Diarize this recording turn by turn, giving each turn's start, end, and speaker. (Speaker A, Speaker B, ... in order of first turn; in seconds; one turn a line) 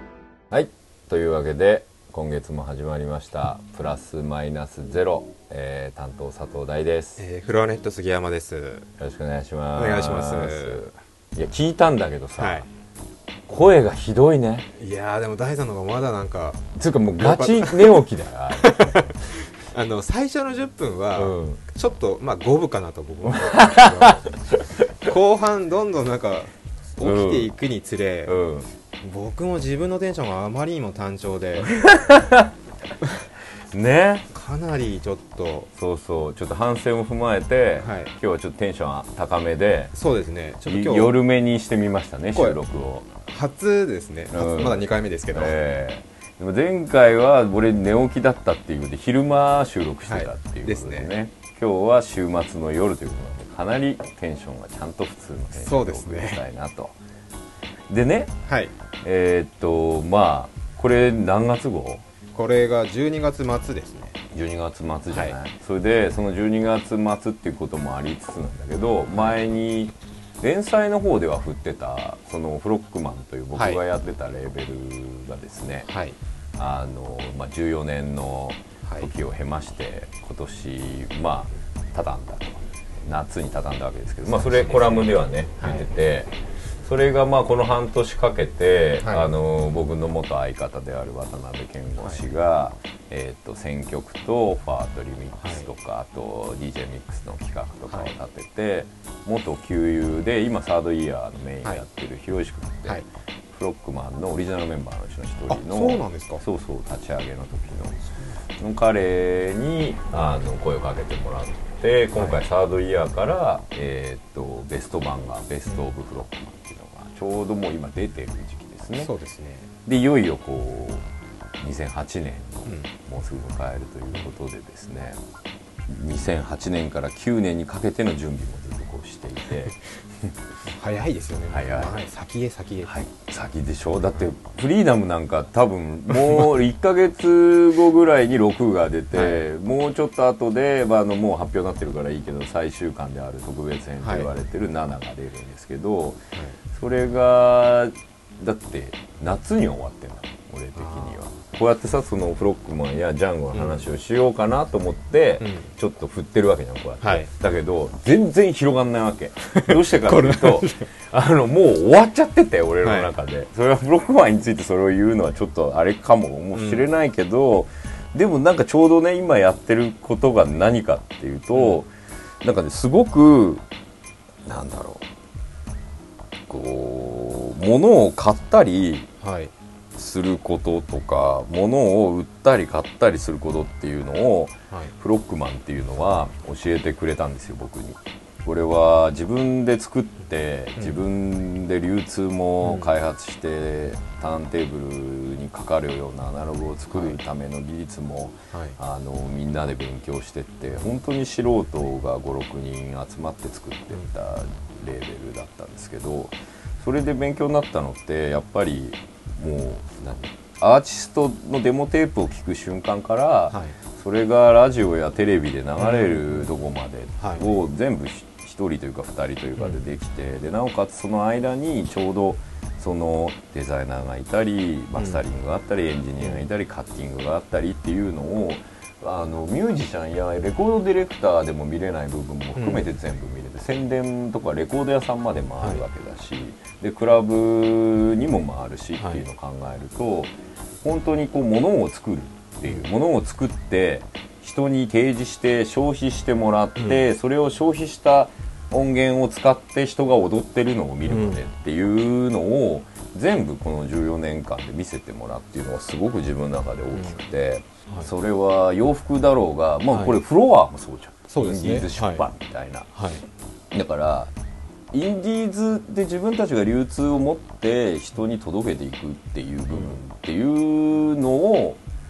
Speaker A: 0.5-7.2
Speaker B: 7.2-8.9
Speaker A: 9.0-12.7
Speaker B: 9.8-10.9
Speaker B: 12.4-12.7
Speaker A: 13.5-14.7
Speaker B: 14.8-16.6
Speaker A: 16.8-19.1
Speaker B: 17.2-18.0
Speaker B: 18.5-24.4
Speaker A: 21.2-21.6
Speaker A: 23.3-24.9
Speaker B: 25.0-28.4
Speaker A: 27.0-27.5
Speaker A: 28.3-28.7
Speaker B: 29.0-31.7
Speaker A: 31.6-32.5
Speaker A: 33.7-34.3
Speaker B: 34.3-35.7
Speaker A: 35.8-40.0
Speaker B: 37.8-38.1
Speaker B: 39.9-41.1
Speaker A: 40.7-43.1
Speaker B: 42.3-42.6
Speaker B: 43.3-45.6
Speaker A: 44.3-57.0
Speaker B: 50.1-51.1
Speaker B: 55.6-56.4
Speaker A: 57.9-58.3
Speaker B: 58.5-58.7
Speaker A: 59.0-62.0
Speaker B: 62.3-64.2
Speaker A: 64.3-75.9
Speaker B: 65.1-65.4
Speaker B: 69.1-69.4
Speaker B: 73.5-73.8
Speaker B: 75.9-76.2
Speaker A: 76.6-86.3
Speaker B: 84.3-85.9
Speaker A: 86.8-108.0
Speaker B: 89.0-89.3
Speaker B: 95.4-95.7
Speaker B: 105.5-106.4
Speaker A: 108.6-119.1
Speaker B: 112.2-112.4
Speaker B: 119.0-119.7
Speaker A: 119.9-121.0
Speaker A: 121.6-125.2
Speaker A: 125.9-129.8
Speaker B: 130.7-132.9
Speaker A: 131.5-132.0
Speaker A: 132.8-171.9
Speaker B: 139.1-139.4
Speaker B: 144.0-144.3
Speaker B: 150.8-151.2
Speaker B: 153.5-153.9
Speaker B: 155.4-155.7
Speaker B: 157.0-157.3
Speaker B: 159.5-160.9
Speaker B: 162.8-163.1
Speaker B: 166.5-166.8
Speaker B: 171.5-171.8
Speaker A: 172.4-173.6
Speaker A: 174.5-175.1
Speaker A: 176.5-179.1
Speaker B: 179.2-179.5
Speaker A: 179.9-262.9
Speaker B: 190.8-191.0
Speaker B: 192.6-192.9
Speaker B: 198.5-198.8
Speaker B: 213.5-213.8
Speaker B: 215.8-216.5
Speaker B: 217.2-217.4
Speaker B: 219.6-219.8
Speaker B: 224.9-225.2
Speaker B: 226.2-226.5
Speaker B: 232.6-232.9
Speaker B: 239.0-239.2
Speaker B: 246.8-247.0
Speaker B: 251.1-251.4
Speaker B: 256.9-257.2
Speaker B: 259.9-260.2
Speaker B: 261.3-262.3
Speaker B: 262.9-263.2
Speaker A: 263.7-264.3
Speaker A: 264.9-271.8
Speaker B: 269.7-270.0